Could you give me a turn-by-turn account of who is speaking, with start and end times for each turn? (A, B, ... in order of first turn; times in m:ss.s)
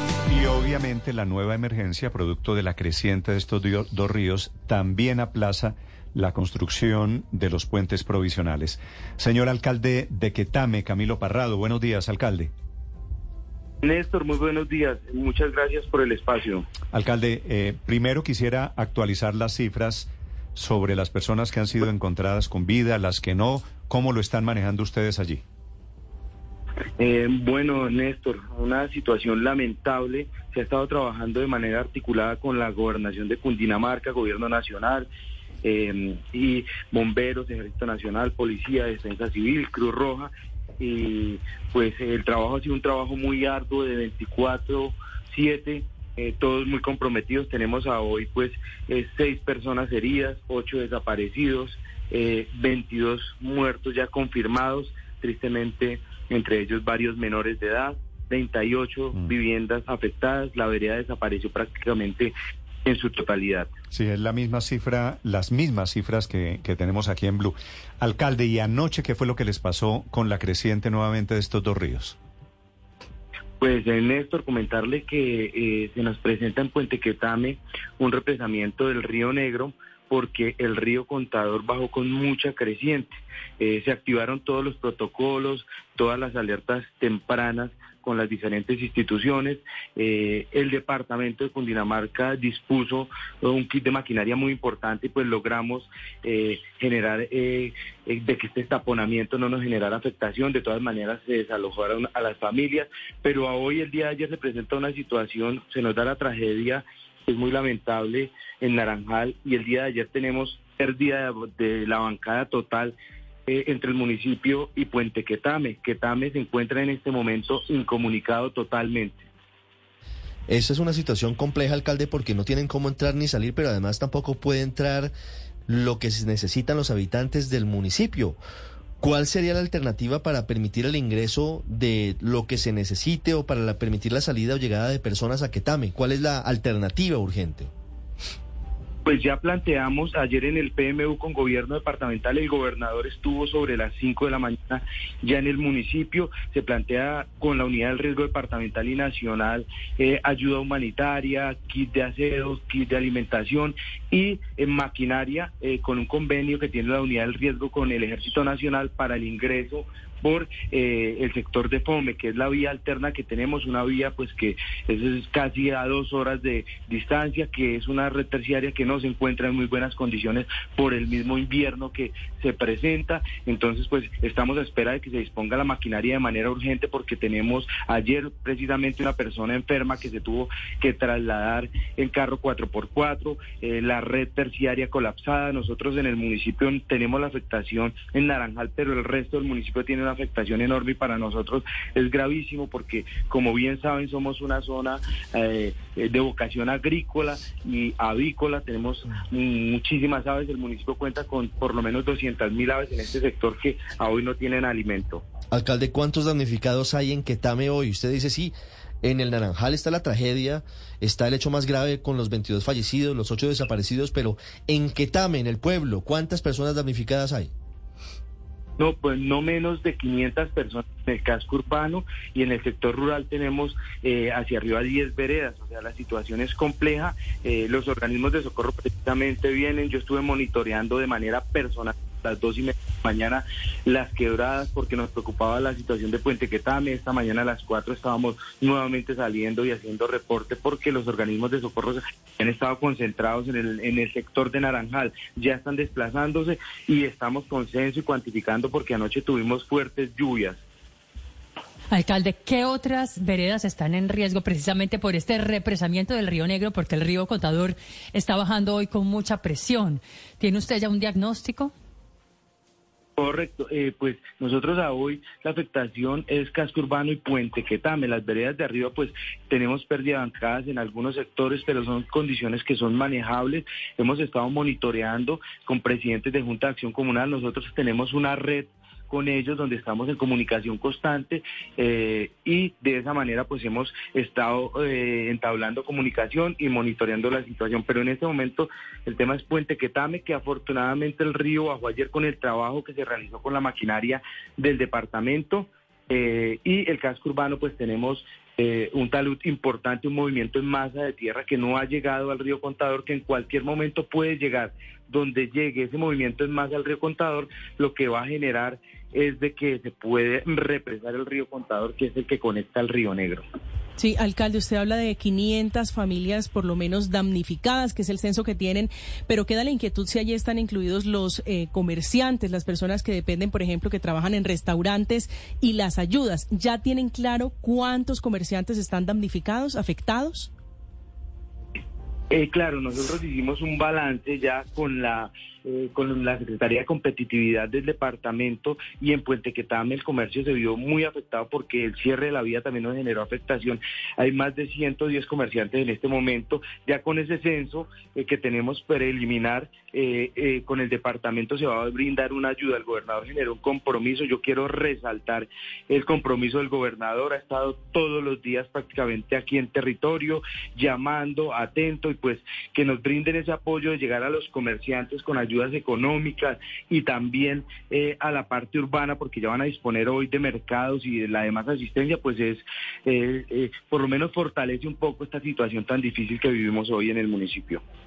0:00.3-0:12.5 A
0:13.8-0:16.6 B
0:16.9-0:25.4 A
0:27.0-0:35.1 B
0:35.6-1:02.3 B
1:02.8-1:03.7 B
1:03.9-1:12.2 A
1:13.6-1:53.0 B
1:53.5-1:59.2 B
2:00.5-2:05.1 C
2:05.7-2:08.4 C
2:09.0-2:17.7 C
2:19.0-3:25.2 B
3:25.5-3:37.5 C
3:38.8-4:10.6 B
4:11.9-4:21.7 D
4:23.2-5:13.4 B
5:14.0-5:30.5 E
5:32.3-6:17.8 B